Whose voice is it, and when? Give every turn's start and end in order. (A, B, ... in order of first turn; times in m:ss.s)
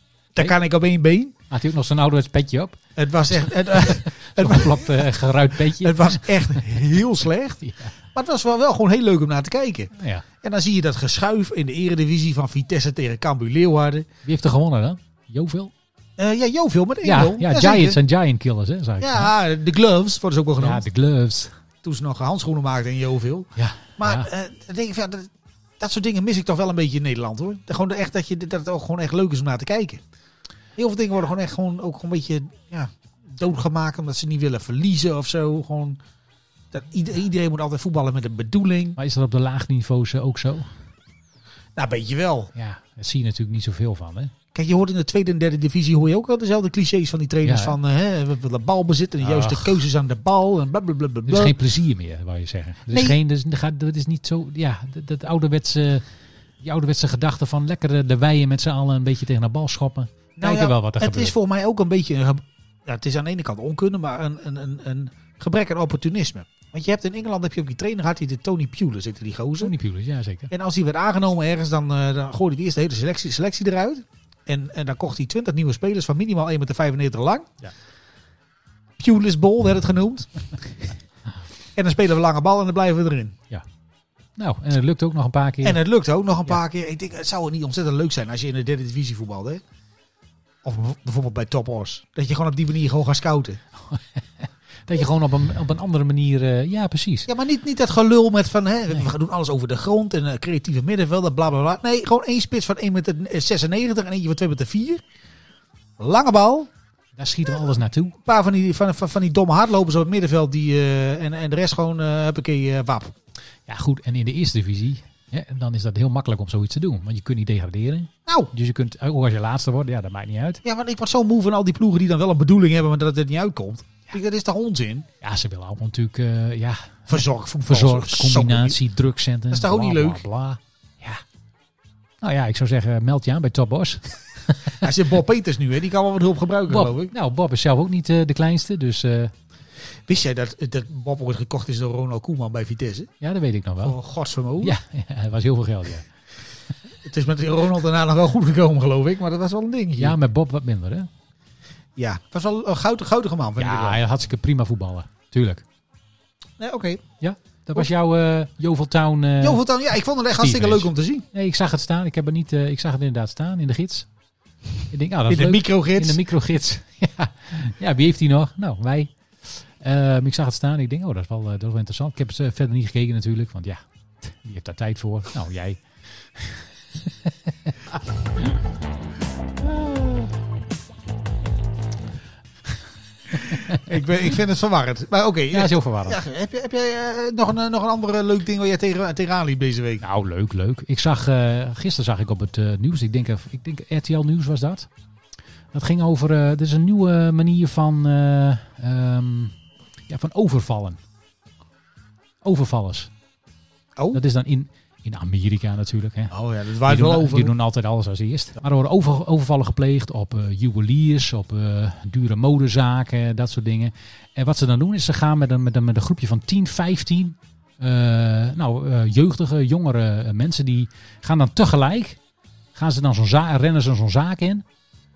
0:00.3-0:01.3 A
0:01.5-0:02.8 B
0:03.0-0:05.1 A
0:03.4-0:06.8 B
0:05.7-0:14.1 A
0:07.6-0:07.9 B
0:10.0-0:10.2 B
0:14.2-0:15.7 B
0:16.2-0:18.0 A
0:17.0-0:19.3 B
0:19.0-0:20.8 A
0:20.6-0:21.5 B
0:21.8-0:30.0 A
0:23.6-0:24.3 B
0:30.8-0:36.0 A
0:36.7-0:39.0 A
0:39.0-0:40.7 B
0:41.8-0:42.5 A
0:42.5-0:44.3 B
0:44.5-0:51.5 A
0:47.4-0:47.8 B
0:49.2-0:49.8 B
0:51.3-0:56.0 B
0:52.9-0:53.2 A
0:56.6-1:01.3 B
1:00.4-1:09.7 A
1:09.6-1:10.5 B
1:10.5-1:17.5 A
1:19.0-1:20.5 A
1:21.8-1:23.4 A
1:24.4-1:25.8 B
1:25.6-1:29.6 A
1:30.6-1:33.6 A
1:33.9-1:37.3 B
1:37.3-1:45.0 A
1:46.0-1:46.7 A
1:47.2-1:48.2 B
1:48.2-1:53.1 A
1:53.7-2:00.6 B
1:58.2-1:58.5 A
2:00.6-2:05.1 A
2:05.2-2:11.2 B
2:07.1-2:08.8 A
2:09.5-2:10.2 A
2:12.2-2:14.7 B
2:14.8-2:17.1 A
2:16.7-2:19.3 B
2:20.1-2:23.1 A
2:23.2-2:23.9 B
2:23.8-2:24.8 A
2:24.6-2:26.1 B
2:27.0-2:30.1 A
2:30.0-2:31.1 B
2:32.0-2:34.0 A
2:33.6-2:35.6 B
2:36.6-2:37.0 A
2:37.2-2:39.6 B
2:39.4-2:41.2 A
2:40.4-2:44.1 B
2:44.9-2:58.4 B
2:45.3-2:46.2 A
3:03.4-3:03.9 B
3:03.5-3:10.0 A
3:05.5-3:06.2 B
3:10.0-3:14.9 B
3:15.7-3:19.5 B
3:20.1-3:21.0 B
3:22.4-3:23.1 B
3:24.0-3:24.2 A
3:24.1-3:42.2 B
3:26.3-3:27.5 A
3:42.7-3:44.6 B